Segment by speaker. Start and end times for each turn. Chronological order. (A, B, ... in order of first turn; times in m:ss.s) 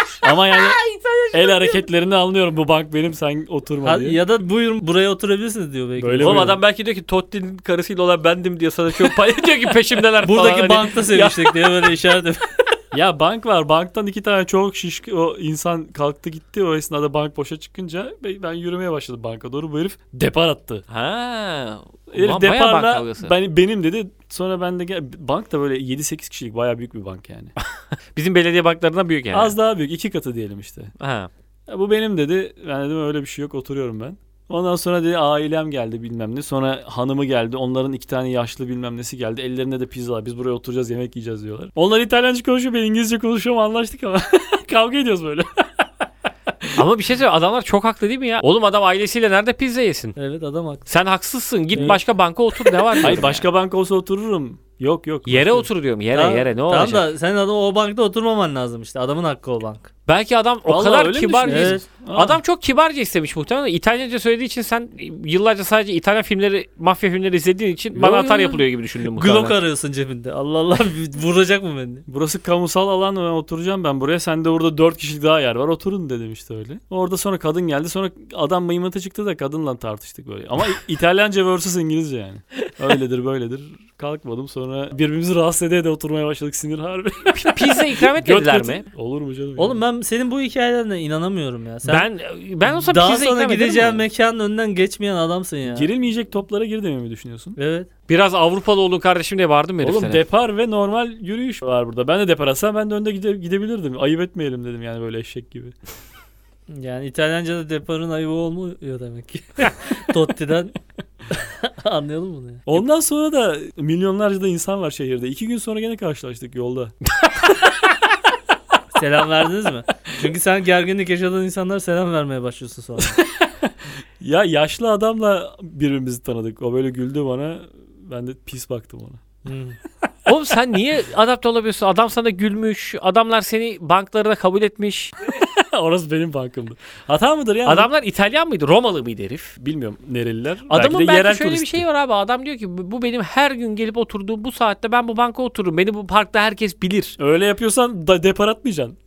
0:00.2-0:00.8 A
0:00.6-0:01.8 B
0:01.3-0:04.2 A
0:03.8-0:06.6 C
0:06.0-0:06.6 A
0:06.2-0:11.7 B
0:10.2-0:12.5 C
0:10.3-0:10.9 A
0:12.9-0:20.8 A
0:20.9-0:23.3 B
0:22.1-0:27.5 A
0:28.2-0:29.6 B
0:29.3-0:30.9 A
0:31.0-0:31.3 B
0:31.7-0:45.8 A
0:46.8-0:50.2 B
0:50.2-0:50.8 C
0:50.9-0:53.5 B
0:53.0-0:55.7 A
0:55.3-0:57.1 B
0:56.1-0:59.9 C
1:00.1-1:09.6 B
1:00.6-1:02.4 A
1:01.5-1:01.8 C
1:08.0-1:12.0 C
1:12.1-1:29.8 A
1:27.3-1:28.8 B
1:29.6-1:32.1 C
1:31.9-1:34.1 B
1:32.8-1:35.9 C
1:35.7-1:37.6 A
1:37.6-1:37.9 C
1:38.1-1:40.2 B
1:39.8-1:45.8 A
1:46.7-1:50.8 C
1:51.3-1:52.7 C
1:52.7-1:56.9 A
1:58.9-2:03.2 C
2:03.6-2:09.2 A
2:09.4-2:09.8 C
2:10.3-2:15.1 B
2:15.2-2:17.9 A
2:17.6-2:19.5 B
2:19.6-2:21.8 A
2:20.7-2:27.2 B
2:27.2-2:29.0 A